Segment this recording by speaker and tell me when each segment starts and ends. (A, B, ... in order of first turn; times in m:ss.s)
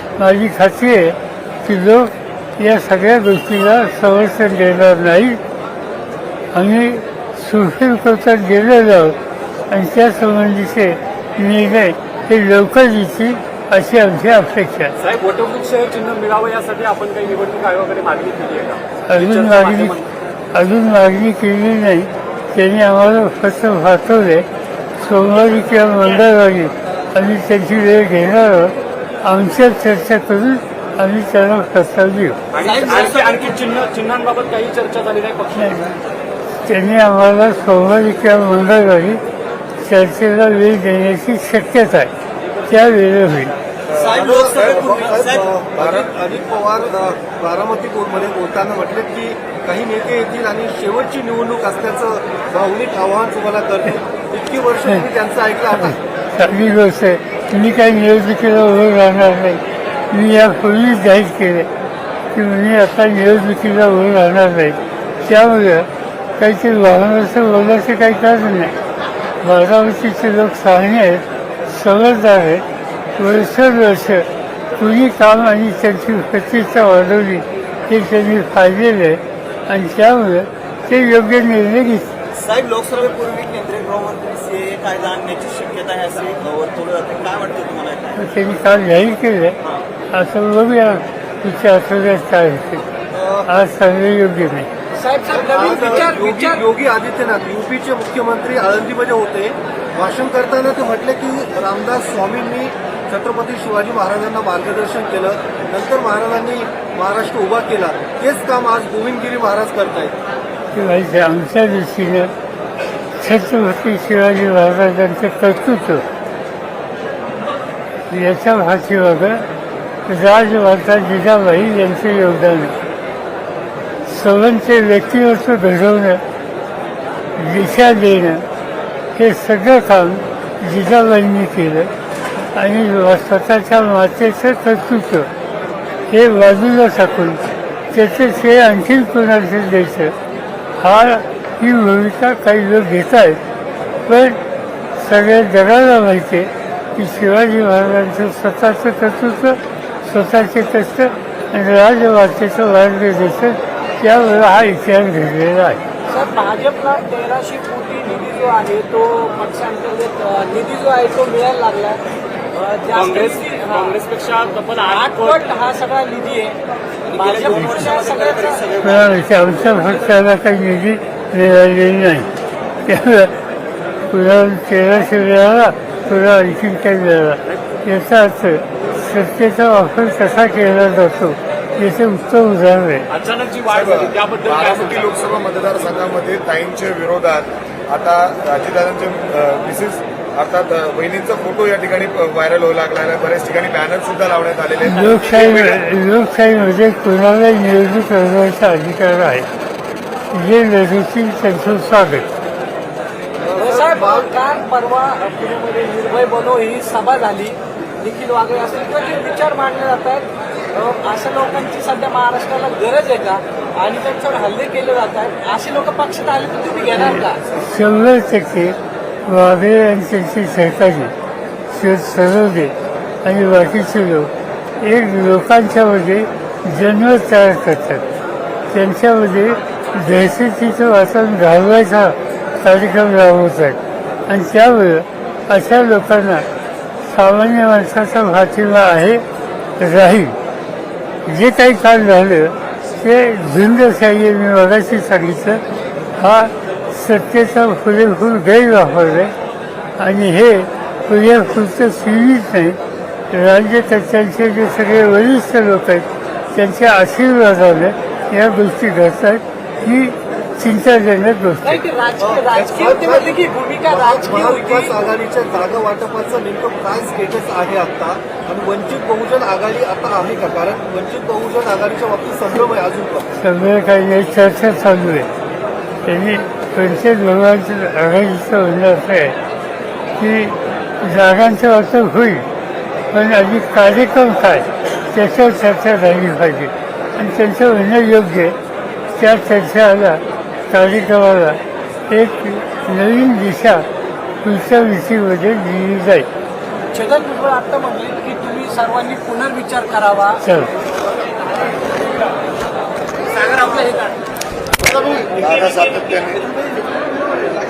0:00.2-0:05.4 A
0:06.5-0:09.2 A
0:09.7-0:14.9 A
0:15.0-0:20.1 B
0:19.1-0:20.0 A
0:20.5-0:32.4 A
0:32.5-0:35.8 B
0:32.6-0:33.5 C
0:35.5-0:36.0 A
0:36.6-0:39.2 A
0:39.8-0:42.1 A
0:42.7-0:43.5 A
0:43.9-0:44.9 D
0:43.9-0:56.0 E
0:44.0-0:45.6 C
0:45.8-0:46.1 D
0:55.9-0:59.6 A
1:00.1-1:01.7 A
1:02.3-1:08.8 A
1:09.4-1:22.1 A
1:22.4-1:28.2 C
1:28.2-1:29.6 A
1:30.1-1:32.8 A
1:33.1-1:33.5 E
1:33.5-1:34.7 A
1:35.0-1:36.6 F
1:35.3-1:50.1 E
1:50.7-1:52.3 A
1:53.2-1:56.0 A
1:58.1-1:59.5 A
2:00.1-2:02.8 A
2:04.1-2:06.2 A
2:07.4-2:08.5 A
2:09.2-2:11.9 A
2:12.5-2:15.3 A
2:16.1-2:20.2 A
2:20.8-2:23.4 A
2:24.1-2:24.4 A
2:25.0-2:35.8 A
2:36.1-2:42.0 F
2:42.5-2:44.0 F
2:43.0-2:45.4 B
2:44.9-2:46.6 F
2:47.1-2:49.1 C
2:47.1-2:48.7 F
2:48.8-2:52.3 A
2:52.8-2:53.4 A
2:54.1-3:03.1 A
3:03.1-3:05.1 B
3:03.7-3:15.8 D
3:14.8-3:19.5 A
3:20.3-3:22.3 A
3:23.4-3:24.3 E
3:23.6-3:37.4 F
3:36.9-3:41.1 A
3:41.7-3:48.0 A
3:48.7-3:56.5 A
3:57.0-3:59.2 A
3:59.8-4:00.4 A
4:01.3-4:05.6 A
4:06.2-4:09.3 A
4:10.0-4:12.8 A
4:13.3-4:21.8 A
4:21.6-4:24.9 F
4:22.2-4:33.3 E
4:33.4-4:35.3 A
4:36.0-4:39.4 A
4:40.2-4:42.5 A
4:43.1-4:48.6 A
4:49.2-4:53.9 A
4:54.4-4:56.3 A
4:56.9-5:00.4 F
5:00.4-5:00.7 A
5:03.6-5:03.8 F
5:05.4-5:06.4 D